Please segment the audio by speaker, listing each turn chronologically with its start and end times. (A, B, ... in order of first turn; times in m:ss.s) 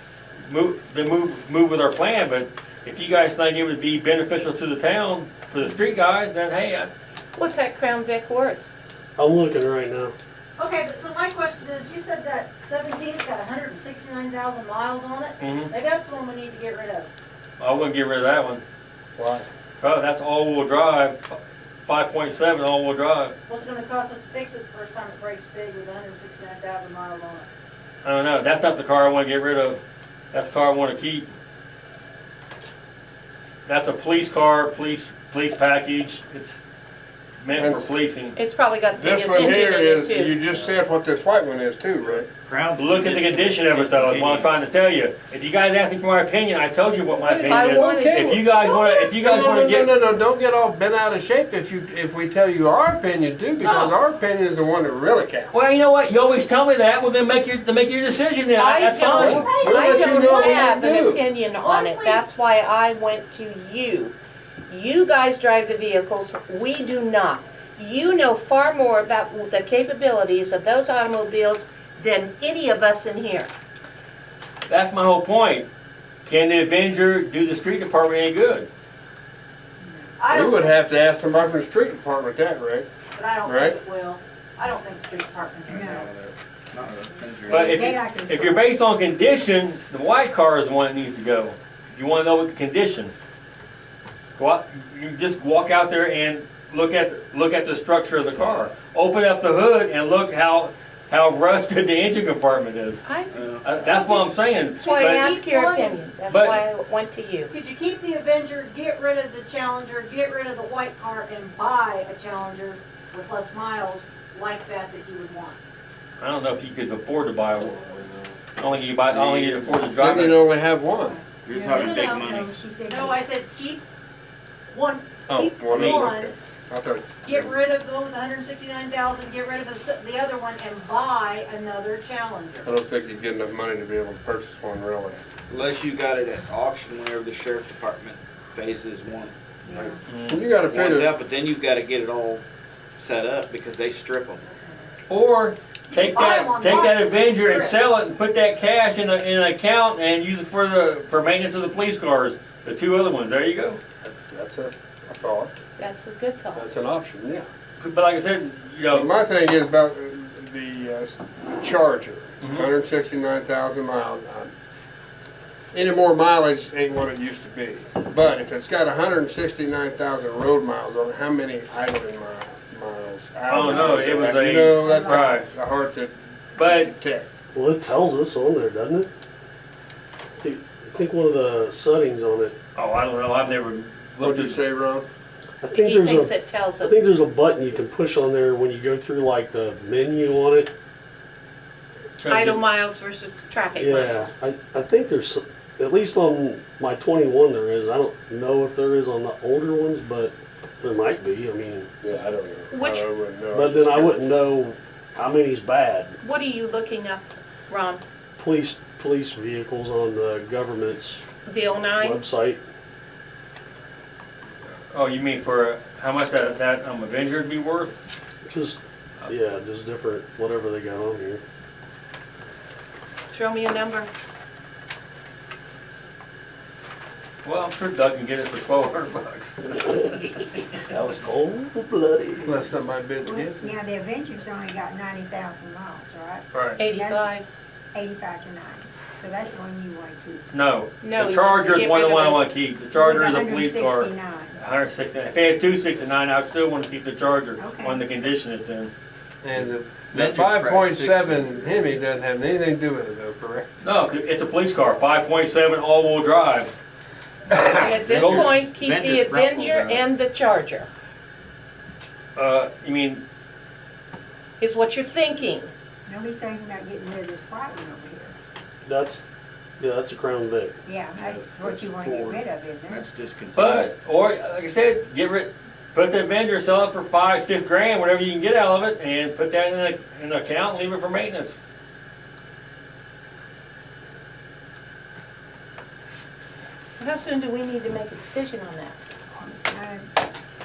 0:00.5-0:06.9 A
0:07.4-0:08.6 B
0:09.2-0:10.2 C
0:10.6-0:17.1 D
0:15.4-0:15.7 A
0:17.6-0:18.6 A
0:19.2-0:19.5 E
0:19.8-0:23.3 A
0:23.5-0:27.5 D
0:28.0-0:29.8 A
0:30.3-0:31.3 A
0:33.7-0:36.6 A
0:37.4-0:38.4 A
0:37.5-0:37.9 E
0:38.4-0:40.4 B
0:38.9-0:42.3 E
0:42.0-0:44.5 F
0:42.8-0:49.9 A
0:47.2-0:55.5 E
0:47.4-0:48.7 B
0:53.6-0:53.9 A
0:55.5-0:59.5 A
0:58.6-1:04.1 B
0:59.1-1:00.7 D
0:59.1-1:01.2 E
1:01.6-1:02.2 D
1:04.7-1:13.5 B
1:14.7-1:15.7 A
1:16.2-1:18.7 A
1:19.8-1:20.2 G
1:20.2-1:20.7 D
1:20.3-1:22.9 E
1:23.2-1:26.0 D
1:23.4-1:23.8 E
1:25.7-1:28.0 F
1:25.7-1:26.1 G
1:27.5-1:33.1 A
1:27.6-1:28.6 G
1:34.4-1:43.0 A
1:43.0-1:47.5 B
1:43.3-1:43.7 F
1:43.6-1:45.2 A
1:44.8-1:46.0 D
1:46.3-1:46.6 A
1:47.5-1:55.6 D
1:56.2-1:57.8 A
1:57.5-1:58.4 E
1:58.6-2:00.4 A
1:59.1-1:59.9 F
1:59.9-2:01.2 E
2:01.0-2:03.2 G
2:01.4-2:02.5 F
2:01.6-2:03.8 D
2:04.7-2:06.3 D
2:05.3-2:07.4 E
2:05.6-2:06.1 F
2:07.2-2:12.7 D
2:12.6-2:15.2 E
2:15.5-2:20.0 F
2:19.7-2:20.0 G
2:20.1-2:20.4 A
2:20.3-2:21.1 E
2:20.6-2:22.4 F
2:23.0-2:24.4 F
2:25.1-2:33.8 A
2:25.9-2:27.8 D
2:34.0-2:35.6 E
2:35.8-2:36.7 B
2:36.5-2:37.5 E
2:37.8-2:39.1 A
2:38.9-2:44.5 E
2:42.4-2:42.7 A
2:45.7-2:57.3 E
2:53.5-2:55.5 A
2:53.6-2:54.0 G
2:54.8-2:55.4 G
2:56.6-2:56.9 A
2:57.5-2:59.1 C
3:00.4-3:02.6 C
3:02.8-3:04.6 A
3:04.2-3:05.1 E
3:05.6-3:10.7 C
3:05.7-3:07.1 B
3:12.2-3:12.6 A
3:12.3-3:14.3 B
3:13.8-3:21.9 C
3:22.0-3:24.3 E
3:22.7-3:23.1 B
3:23.5-3:26.2 C
3:26.2-3:28.0 B
3:28.4-3:31.2 C
3:31.5-3:32.2 B
3:32.0-3:32.6 C
3:34.9-3:37.9 A
3:38.4-3:41.4 C
3:43.3-3:44.1 B
3:47.4-3:49.9 A
3:49.8-3:50.2 C
3:50.9-3:52.7 C
3:52.4-3:53.8 E
3:53.2-3:57.3 G
3:56.8-3:57.4 B
3:57.9-4:00.5 G
4:00.5-4:08.9 A
4:01.0-4:02.4 B
4:02.9-4:04.6 G
4:07.6-4:08.1 G
4:09.4-4:13.7 E
4:09.6-4:11.8 F
4:13.8-4:16.7 A
4:17.5-4:18.5 A
4:17.8-4:20.9 B
4:18.0-4:20.1 F
4:22.4-4:23.2 A
4:24.6-4:25.7 B
4:26.1-4:28.4 G
4:28.8-4:29.3 C
4:29.8-4:30.8 C
4:30.8-4:33.1 G
4:31.2-4:33.9 F
4:33.6-4:41.6 A
4:47.0-4:49.0 B
4:49.4-4:50.1 G